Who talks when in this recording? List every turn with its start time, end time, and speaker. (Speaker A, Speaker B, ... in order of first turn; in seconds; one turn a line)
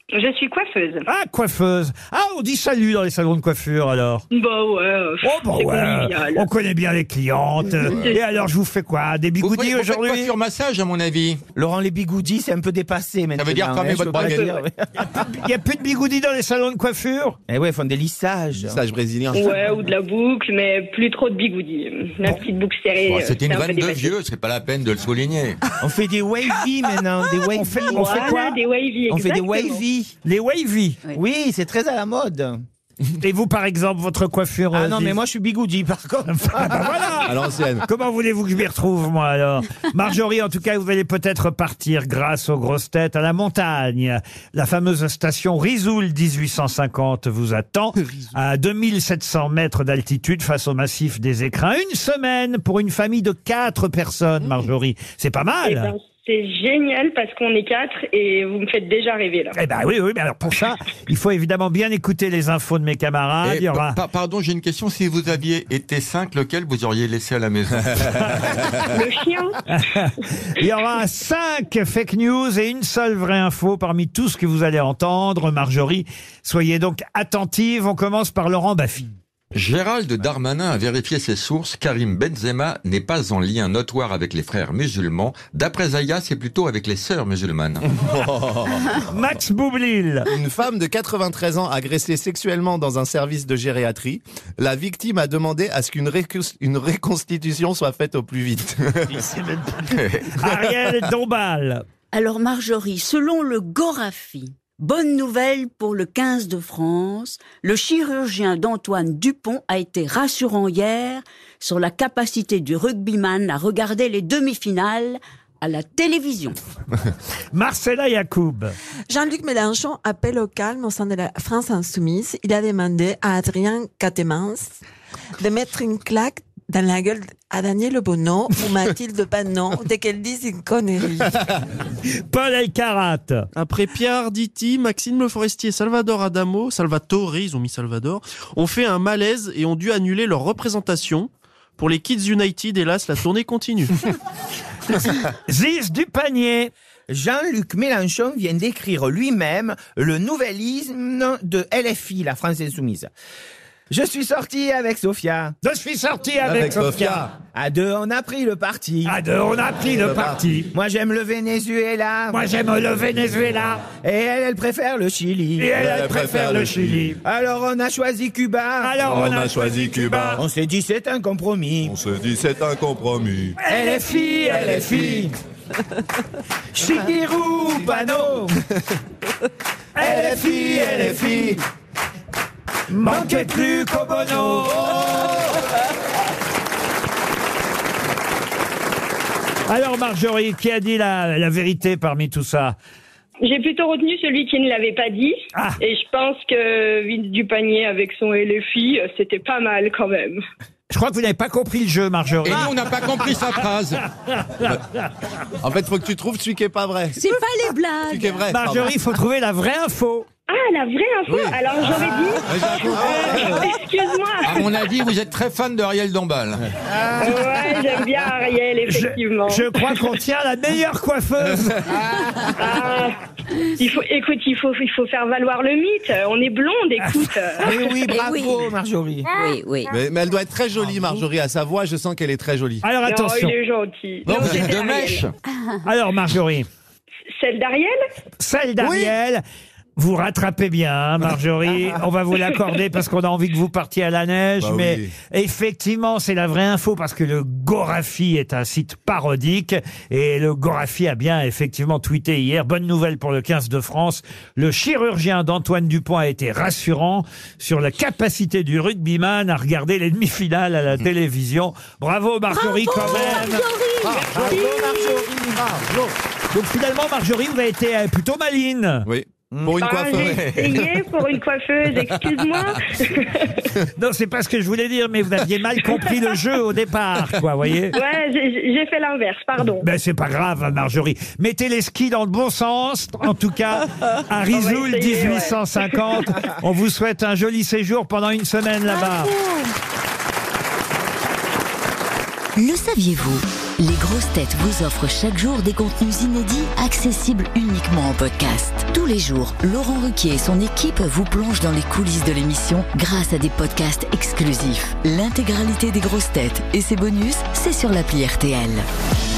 Speaker A: 0.1-1.1
Speaker B: 1.1-4.2
Speaker A: 4.3-6.5
Speaker B: 5.2-10.3
Speaker C: 7.9-8.2
Speaker C: 9.4-11.4
Speaker D: 11.6-14.9
Speaker C: 13.3-14.5
Speaker A: 14.3-14.6
Speaker B: 15.0-17.4
Speaker D: 17.5-18.8
Speaker E: 18.6-19.6
Speaker A: 19.3-24.1
Speaker C: 23.0-25.6
Speaker D: 25.8-28.4
Speaker B: 27.5-28.6
Speaker A: 28.0-29.8
Speaker D: 29.1-30.1
Speaker B: 30.2-31.0
Speaker D: 31.1-32.6
Speaker B: 33.2-35.2
Speaker D: 34.7-37.0
Speaker B: 36.3-55.9
Speaker E: 37.2-37.9
Speaker A: 55.6-59.6
Speaker B: 59.5-64.0
Speaker C: 63.4-68.8
Speaker A: 68.9-69.6
Speaker B: 69.7-79.1
Speaker C: 79.5-87.8
Speaker E: 87.9-89.0
Speaker B: 89.1-90.3
Speaker E: 90.3-99.2
Speaker D: 99.2-99.8
Speaker C: 99.9-100.3
Speaker B: 100.3-101.8
Speaker F: 102.1-116.6
Speaker B: 117.5-118.7
Speaker G: 119.1-124.8
Speaker G: 125.4-131.4
Speaker B: 132.3-133.4
Speaker H: 133.6-144.1
Speaker B: 145.5-146.7
Speaker D: 147.1-153.1
Speaker D: 153.9-155.6
Speaker B: 155.6-157.3
Speaker E: 156.4-157.3
Speaker D: 157.5-159.2
Speaker B: 159.1-160.7
Speaker E: 159.9-160.4
Speaker D: 160.7-162.4
Speaker B: 162.3-163.8
Speaker D: 164.0-165.7
Speaker B: 165.6-167.2
Speaker E: 165.8-167.1
Speaker D: 167.2-169.0
Speaker B: 168.8-170.4
Speaker E: 169.1-170.4
Speaker D: 170.4-171.9
Speaker E: 171.8-173.6
Speaker B: 173.6-175.3
Speaker D: 173.7-175.4
Speaker D: 176.8-178.6
Speaker B: 177.6-178.1
Speaker B: 180.0-181.3
Speaker D: 180.0-181.6
Speaker E: 180.8-181.6
Speaker B: 182.9-185.3
Speaker D: 183.1-185.2
Speaker B: 189.7-192.8
Speaker A: 193.4-200.4
Speaker B: 200.9-203.3
Speaker C: 202.4-204.1
Speaker B: 204.4-204.7
Speaker E: 205.6-207.2
Speaker I: 207.2-208.2
Speaker E: 208.1-208.9
Speaker B: 208.5-210.3
Speaker A: 210.5-214.7
Speaker E: 211.3-211.6
Speaker C: 212.6-213.0
Speaker E: 212.6-213.6
Speaker B: 213.0-213.6
Speaker C: 214.4-216.7
Speaker A: 217.2-220.1
Speaker B: 218.8-222.0
Speaker A: 222.6-223.2
Speaker A: 223.8-227.7
Speaker D: 227.6-229.3
Speaker F: 228.1-228.6
Speaker F: 229.3-229.9
Speaker E: 229.9-232.8
Speaker B: 232.8-233.5
Speaker A: 233.1-235.2
Speaker C: 234.3-235.3
Speaker B: 235.8-236.7
Speaker A: 237.4-237.9
Speaker B: 238.4-239.4
Speaker E: 238.8-239.1
Speaker B: 240.0-263.7
Speaker E: 244.6-245.1
Speaker D: 264.0-266.1
Speaker A: 264.5-265.2
Speaker B: 266.5-269.1
Speaker E: 269.1-271.0
Speaker A: 269.8-273.5
Speaker C: 270.2-270.8
Speaker B: 273.9-278.0
Speaker A: 277.9-279.9
Speaker B: 279.8-289.3
Speaker A: 284.5-286.1
Speaker I: 292.6-308.9